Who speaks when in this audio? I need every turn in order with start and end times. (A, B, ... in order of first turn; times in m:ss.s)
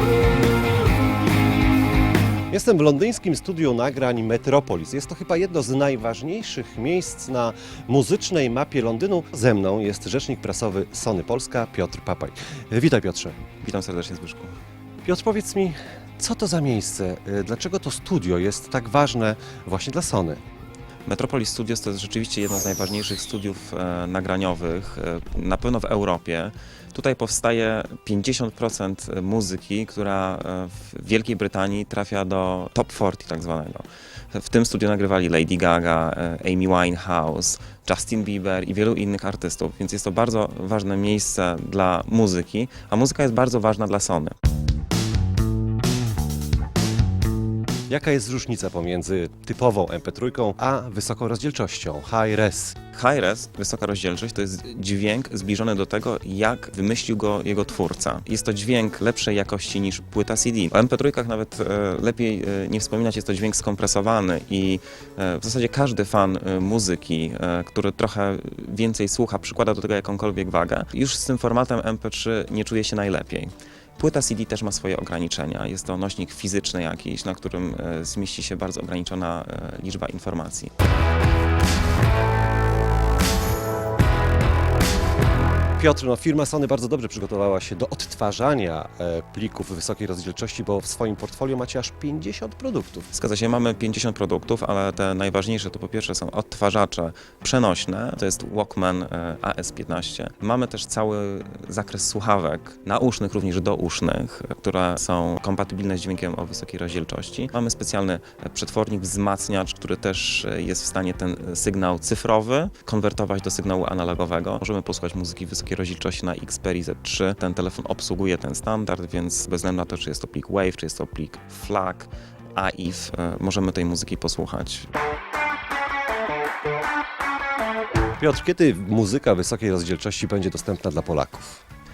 0:02.5-0:13.4 A
0:13.6-0:14.6 B
0:15.0-0:20.4 A
0:21.0-0:44.4 B
0:47.9-0:52.8 A
0:52.9-1:20.7 B
1:25.8-1:33.1 A
1:33.1-2:04.9 B
2:08.2-2:11.6 A